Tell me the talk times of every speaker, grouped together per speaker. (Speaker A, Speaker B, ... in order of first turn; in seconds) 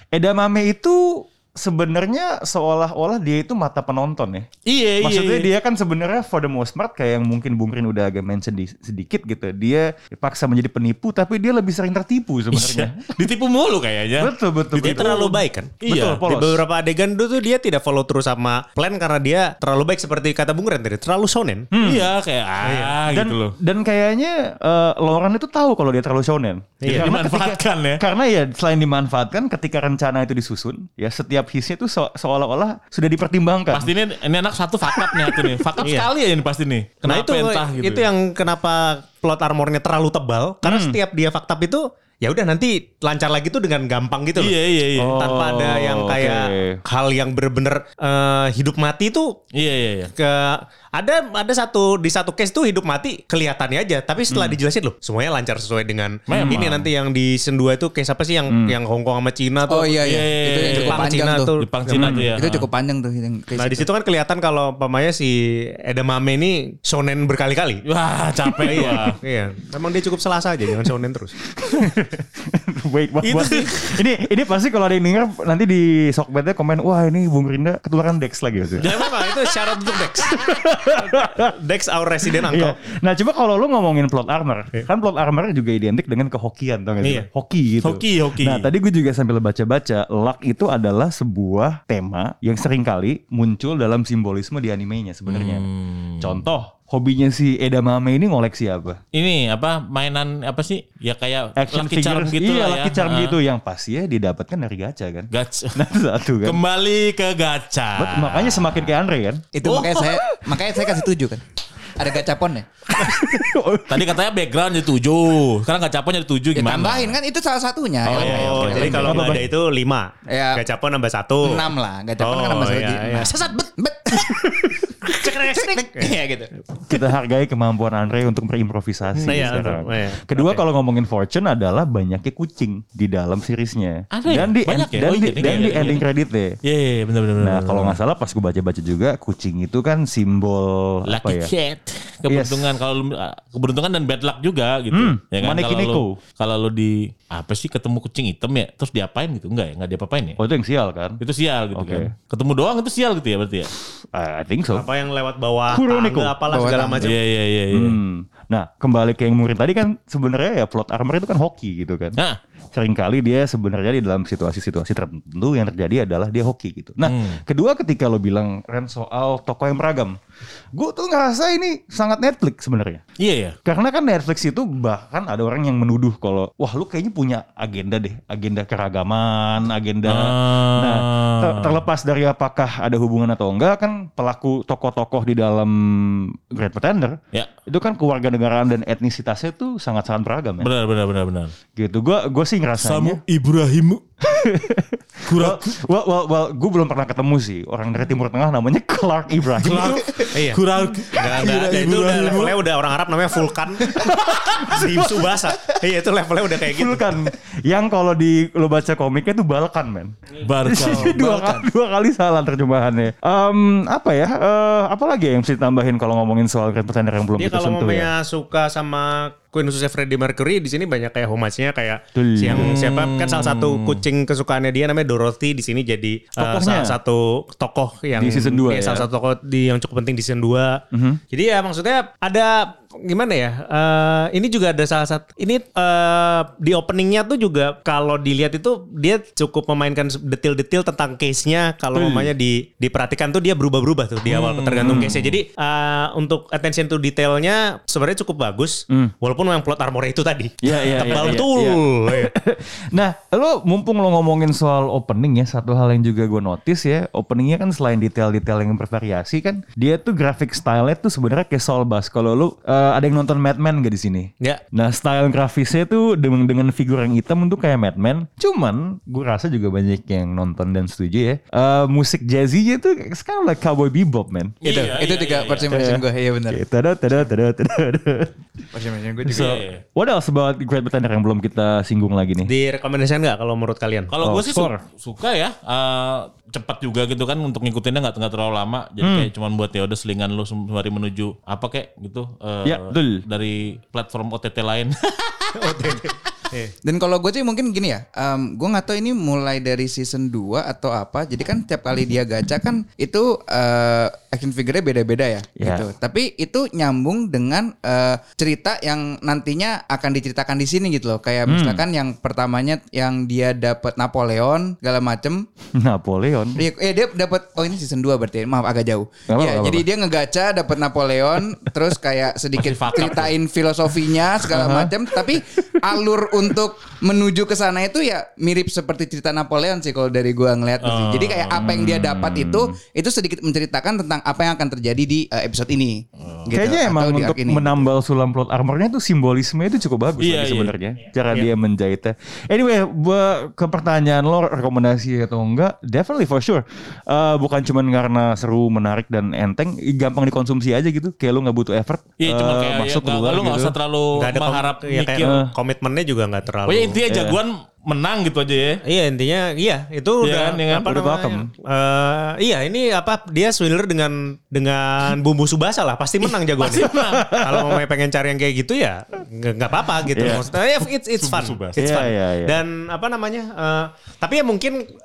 Speaker A: 0.1-4.5, 5.0-13.3, 14.2-16.6, 21.7-22.1, 23.1-33.9, 40.6-41.0, 45.0-45.4, 46.1-46.8, 56.3-56.6, 61.9-62.3, 68.6-69.1, 71.5-79.0, 80.4-81.5, 82.5-95.7, 96.2-99.0, 101.5-106.6, 107.9-109.5, 110.0-110.8, 112.9-114.2, 118.2-119.5, 126.9-136.6, 137.4-141.5, 142.3-142.7, 144.9-146.2, 150.4-151.2, 151.7-152.1, 154.1-154.9, 155.7-156.4, 157.7-162.2, 162.7-170.2, 170.7-173.0, 173.6-190.7, 191.8-193.2, 194.2-200.4, 204.5-205.0, 206.6-210.1, 210.6-218.1, 222.1-222.7, 226.4-226.9, 228.1-229.1, 230.9-231.2, 241.9-242.3, 244.8-245.2, 250.6-274.6, 275.7-278.4, 279.2-282.5, 284.2-284.8, 289.0-289.3, 292.6-293.2, 305.6-305.9, 311.4-311.9, 315.7-316.6, 319.3-319.9, 324.5-325.4, 331.5-332.7, 336.5-353.8, 355.2-355.5, 357.1-357.4, 360.9-361.5, 366.8-367.8, 370.1-370.5, 371.8-372.6
Speaker B: 4.7-5.5, 12.5-15.3, 15.8-16.2, 21.8-23.5, 26.9-28.0, 33.7-38.1, 44.4-46.1, 49.5-50.1, 56.3-56.9, 60.0-62.7, 67.8-69.2, 78.8-80.1, 87.8-88.7, 95.3-96.4, 99.1-103.4, 105.3-108.9, 113.9-117.1, 118.0-119.4, 129.2-129.5, 134.1-136.0, 136.7-138.0, 141.1-150.4, 151.2-153.7, 157.0-158.0, 167.0-167.4, 173.2-173.6, 180.1-181.8, 190.6-191.5, 192.8-194.1, 195.3-195.7, 199.6-202.6, 204.1-204.7, 210.4-211.2, 222.5-224.0, 244.4-245.2, 274.6-275.7, 279.2-279.8, 284.1-295.9, 322.6-323.4, 330.8-331.8, 336.2-336.5, 340.2-340.7, 352.2-355.3, 356.6-358.8, 360.2-361.0, 366.6-367.4, 371.2-371.8
Speaker C: 14.8-21.7, 22.6-23.0, 26.8-27.1, 35.8-36.1, 37.0-44.5, 45.1-49.3, 50.2-60.1, 60.6-62.3, 63.6-67.8, 68.6-71.4, 73.2-73.7, 78.8-82.8, 87.0-87.3, 118.1-121.6, 122.2-124.5, 125.1-126.1, 129.2-130.6, 135.4-135.9, 154.7-157.2, 200.3-200.6, 201.1-207.2, 217.4-230.8, 231.3-252.3, 282.5-284.1, 295.5-296.7, 354.2-357.0, 358.9-374.8
Speaker D: 59.6-61.5, 62.3-63.9, 109.5-111.4, 112.0-112.7, 116.5-119.4, 120.3-120.6, 121.4-126.5, 156.5-157.0, 210.8-211.6, 274.6-276.6, 278.7-279.6, 296.8-315.4, 316.6-337.9